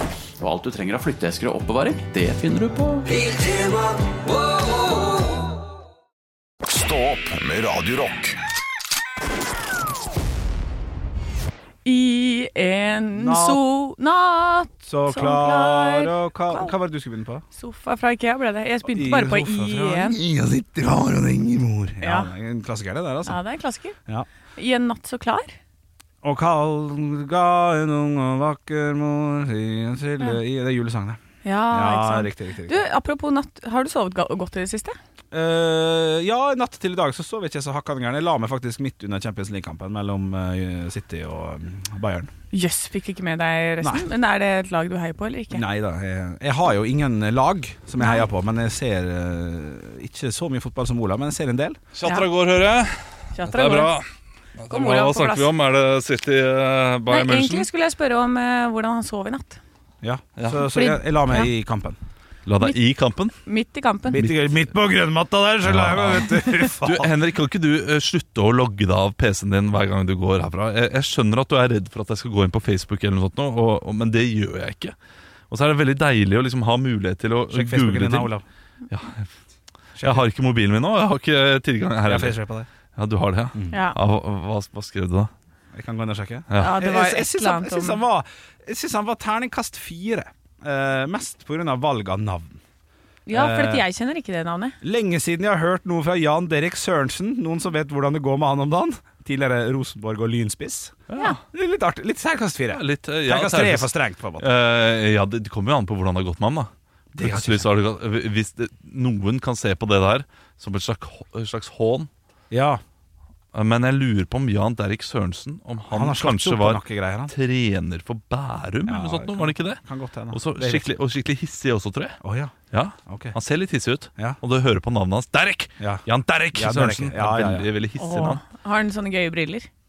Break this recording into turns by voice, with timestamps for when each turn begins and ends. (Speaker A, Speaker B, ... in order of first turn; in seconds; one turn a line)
Speaker A: 0.4-3.2
Speaker B: 3.2-3.9
Speaker B: 6.6-8.4
Speaker C: 11.8-16.7
Speaker D: 13.1-13.6
Speaker D: 14.8-17.4
Speaker C: 17.5-20.2
Speaker D: 18.9-23.4
Speaker C: 22.0-22.3
Speaker C: 23.2-23.9
Speaker C: 24.6-25.6
Speaker D: 26.2-32.8
Speaker C: 31.4-35.0
Speaker D: 35.3-42.3
Speaker C: 42.5-45.6
Speaker D: 43.8-44.0
Speaker D: 45.5-51.8
Speaker C: 48.0-48.2
Speaker E: 51.9-54.0
Speaker C: 53.3-53.9
Speaker E: 54.6-57.7
Speaker C: 54.7-55.5
Speaker C: 57.1-59.6
Speaker D: 60.0-62.0
Speaker E: 60.4-60.7
Speaker C: 60.7-61.5
Speaker E: 62.5-63.3
Speaker C: 63.4-64.2
Speaker D: 64.1-67.2
Speaker E: 64.2-64.5
Speaker E: 65.6-74.9
Speaker E: 75.5-78.3
Speaker D: 77.5-78.4
Speaker E: 78.9-79.3
Speaker D: 80.0-80.3
Speaker E: 80.0-82.4
Speaker D: 82.0-82.7
Speaker E: 82.9-85.3
Speaker D: 83.5-83.8
Speaker C: 83.7-84.0
Speaker D: 85.7-92.6
Speaker E: 86.5-86.8
Speaker C: 86.6-88.0
Speaker C: 93.3-94.8
Speaker D: 93.3-93.8
Speaker D: 94.8-104.5
Speaker E: 101.1-101.4
Speaker E: 102.7-112.1
Speaker D: 107.1-107.7
Speaker D: 112.5-112.8
Speaker E: 113.5-119.8
Speaker D: 115.9-117.3
Speaker D: 118.8-120.9
Speaker E: 120.3-122.2
Speaker D: 122.2-122.5
Speaker E: 122.7-128.4
Speaker D: 123.0-123.3
Speaker D: 125.8-127.7
Speaker C: 128.0-129.7